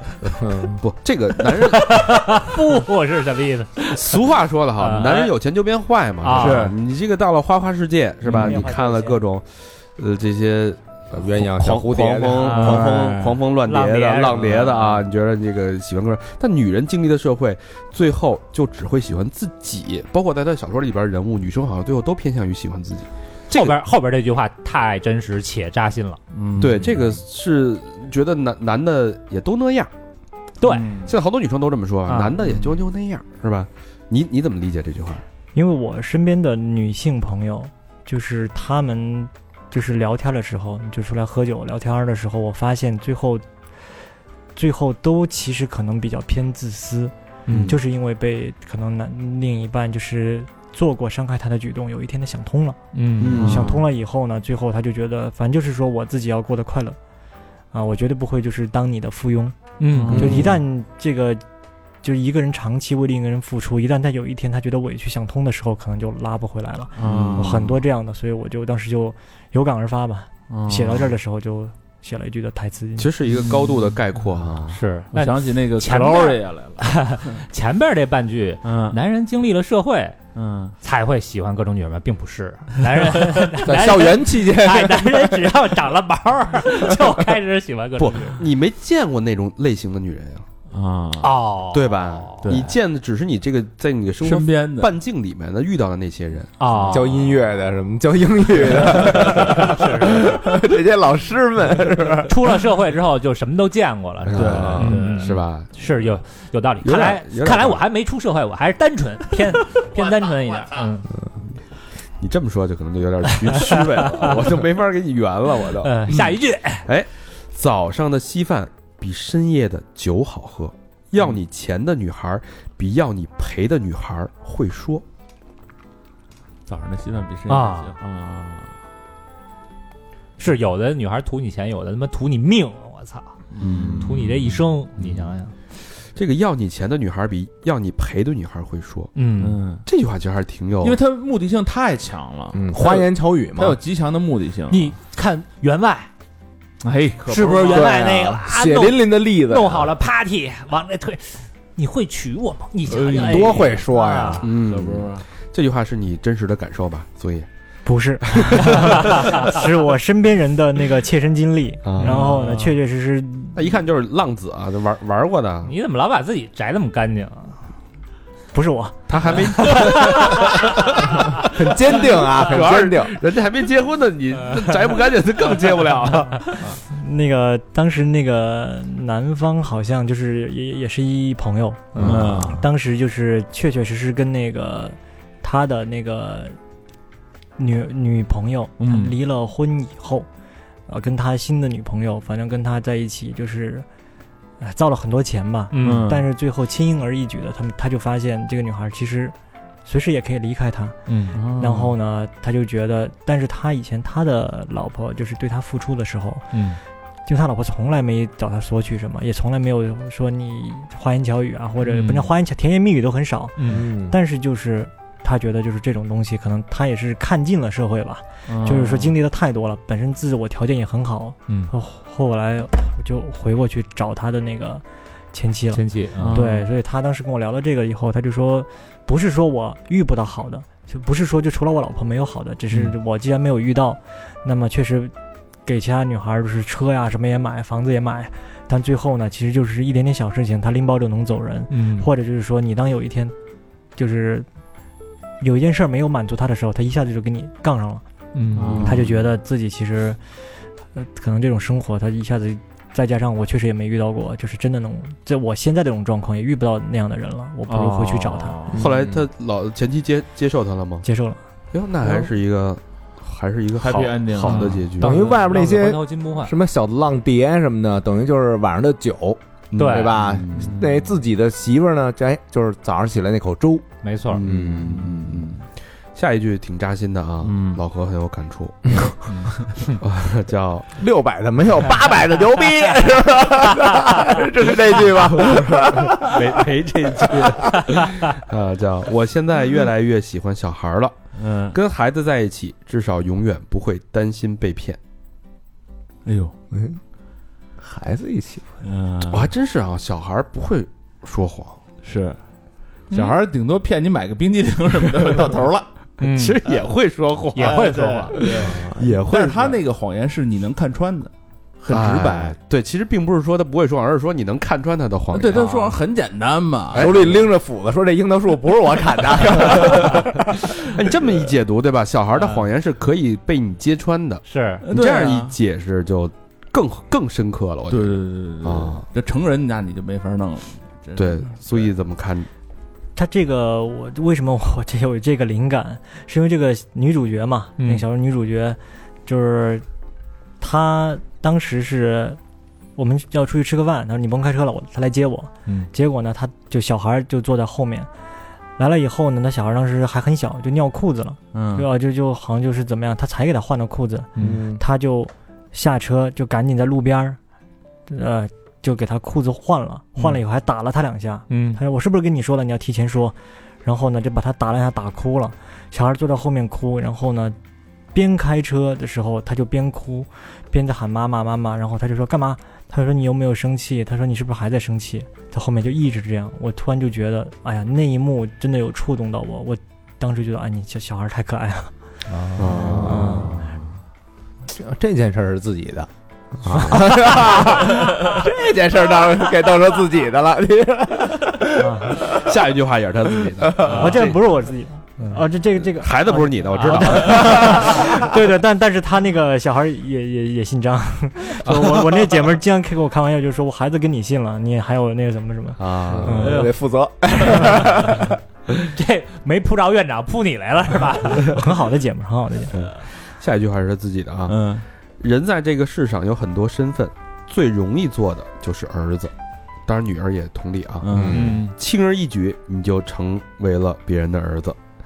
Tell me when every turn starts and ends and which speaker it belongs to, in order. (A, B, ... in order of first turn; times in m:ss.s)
0:00.2-0:00.8 A
0:00.8-0:02.6 B
0:01.4-0:04.2 C
0:03.9-0:23.7 B
0:04.8-0:05.3 C
0:06.2-0:06.7 C
0:06.4-0:06.7 D
0:08.2-0:08.6 D
0:08.4-0:09.2 E
0:11.1-0:12.6 A
0:12.4-0:13.0 C
0:12.6-0:13.4 D
0:13.6-0:15.1 C
0:23.5-0:26.2 C
0:26.3-0:27.2 D
0:26.6-0:29.9 B
0:30.6-0:31.0 C
0:30.6-0:31.1 D
0:31.1-0:35.2 B
0:32.1-0:32.4 C
0:32.4-0:32.8 D
0:35.5-0:43.4 E
0:44.5-0:52.8 E
0:47.5-0:47.8 B
0:52.9-0:53.6 C
0:53.2-0:53.7 B
0:53.3-0:53.8 D
0:53.4-0:57.0 E
0:57.7-0:59.6 E
0:59.8-1:00.4 C
0:59.9-1:00.6 D
1:00.1-1:01.4 E
1:02.0-1:13.1 E
1:07.0-1:07.8 D
1:07.0-1:07.7 B
1:10.5-1:11.1 D
1:13.0-1:14.8 B
1:13.3-1:14.0 D
1:14.7-1:20.2 C
1:15.1-1:17.4 D
1:18.6-1:19.0 D
1:20.3-1:20.7 D
1:20.8-1:28.4 C
1:23.6-1:25.6 A
1:28.0-1:30.4 B
1:30.7-1:31.4 D
1:31.2-1:32.4 C
1:31.7-1:36.5 B
1:32.4-1:32.8 D
1:34.2-1:34.9 D
1:36.6-1:37.2 C
1:36.7-1:37.1 D
1:36.9-1:42.4 A
1:38.8-1:39.7 D
1:38.9-1:40.3 C
1:42.3-1:51.1 C
1:44.3-1:45.7 B
1:44.3-1:45.4 D
1:44.5-1:44.8 A
1:46.8-1:47.8 B
1:52.2-1:56.3 B
1:53.4-1:54.5 C
1:55.8-1:56.9 C
1:56.8-2:05.0 B
2:06.7-2:08.7 D
2:07.5-2:08.0 C
2:10.4-2:13.4 C
2:13.5-2:15.3 D
2:13.6-2:14.1 B
2:13.9-2:15.5 C
2:16.1-2:19.1 B
2:19.2-2:19.6 C
2:19.4-2:19.8 D
2:19.8-2:21.0 B
2:20.8-2:25.0 D
2:22.5-2:23.8 A
2:24.7-2:26.1 C
2:26.8-2:27.9 D
2:27.3-2:34.4 C
2:27.7-2:29.9 A
2:32.9-2:33.6 D
2:33.0-2:34.5 A
2:34.4-2:37.5 B
2:34.5-2:35.2 D
2:37.8-2:43.7 E
2:38.3-2:39.6 B
2:41.8-2:42.4 B
2:42.0-2:42.8 D
2:43.5-2:45.7 B
2:45.6-2:47.6 C
2:48.5-2:49.1 E
2:49.1-2:56.7 B
2:49.6-2:50.8 C
2:51.2-2:53.1 A
2:56.8-3:06.6 E
3:01.9-3:02.2 C
3:02.0-3:02.6 D
3:02.0-3:02.4 A
3:07.6-3:10.3 E
3:08.8-3:09.2 D
3:10.9-3:13.8 E
3:14.6-3:19.3 E
3:15.7-3:16.0 C
3:15.8-3:16.3 D
3:19.8-3:21.0 E
3:21.1-3:21.4 C
3:21.3-3:21.9 D
3:21.6-3:26.5 E
3:26.5-3:26.8 C
3:27.2-3:55.1 E
3:31.9-3:32.3 C
3:33.6-3:33.8 C
3:33.7-3:34.2 A
3:38.5-3:39.2 D
3:45.7-3:46.4 C
3:46.2-3:46.7 D
3:55.6-4:03.3 E
4:01.7-4:02.1 C
4:04.0-4:04.5 E
4:05.4-4:08.0 E
4:08.3-4:08.9 C
4:08.5-4:09.2 D
4:08.7-4:10.2 E
4:10.9-4:18.6 E
4:17.6-4:19.2 D
4:18.7-4:19.0 A
4:18.7-4:21.0 B
4:21.0-4:21.4 E
4:21.7-4:25.2 B
4:23.8-4:25.3 D
4:24.4-4:26.5 C
4:25.0-4:33.8 A
4:29.7-4:30.7 B
4:29.8-4:30.2 C
4:30.6-4:31.1 D
4:34.0-4:34.4 C
4:34.3-4:35.6 B
4:34.4-4:35.1 A
4:34.9-4:35.5 D
4:36.1-4:39.1 B
4:37.4-4:37.8 D
4:39.3-4:40.0 C
4:40.0-4:40.9 B
4:41.0-4:47.9 A
4:44.7-4:51.2 B
4:51.3-4:51.8 D
4:51.7-4:55.0 B
4:56.2-4:56.5 D
4:56.7-4:57.0 A
4:57.8-4:58.8 A
4:58.8-4:59.5 D
4:59.3-5:01.8 B
5:02.0-5:02.4 D
5:03.1-5:05.8 D
5:03.1-5:03.4 C
5:05.2-5:05.5 B
5:05.3-5:05.8 A
5:06.2-5:06.6 C
5:06.2-5:09.8 B
5:07.5-5:08.4 C
5:07.6-5:12.6 D
5:08.5-5:09.2 A
5:11.9-5:16.0 B
5:15.3-5:17.4 D
5:16.9-5:17.4 B
5:16.9-5:20.4 A
5:19.6-5:29.0 B
5:24.5-5:24.8 C
5:24.8-5:25.5 D
5:27.9-5:31.9 D
5:31.2-5:32.5 B
5:33.2-5:39.8 E
5:40.6-5:42.4 E
5:43.0-5:48.1 E
5:48.8-5:57.4 E
5:51.5-5:51.9 D
5:54.4-5:54.8 A
5:58.1-6:07.6 E
6:01.5-6:01.8 C
6:08.1-6:21.9 E
6:22.3-6:22.9 C
6:22.6-6:23.6 B
6:22.6-6:23.5 A
6:23.0-6:23.5 E
6:23.0-6:23.9 D
6:24.7-6:26.1 A
6:26.6-6:27.0 B
6:26.6-6:32.4 A
6:31.8-6:32.2 E
6:32.2-6:34.4 B
6:33.6-6:33.9 A
6:33.8-6:34.2 C
6:33.9-6:46.6 E
6:35.8-6:38.0 B
6:37.4-6:38.0 A
6:41.6-6:42.0 B
6:45.8-6:46.7 B
6:46.1-6:48.4 A
6:46.4-6:46.7 C
6:47.4-6:51.6 C
6:51.4-6:52.7 E
6:52.7-6:59.3 B
6:54.5-6:54.8 D
6:59.8-7:04.8 B
7:01.0-7:01.7 D
7:01.1-7:01.6 A
7:01.3-7:01.7 C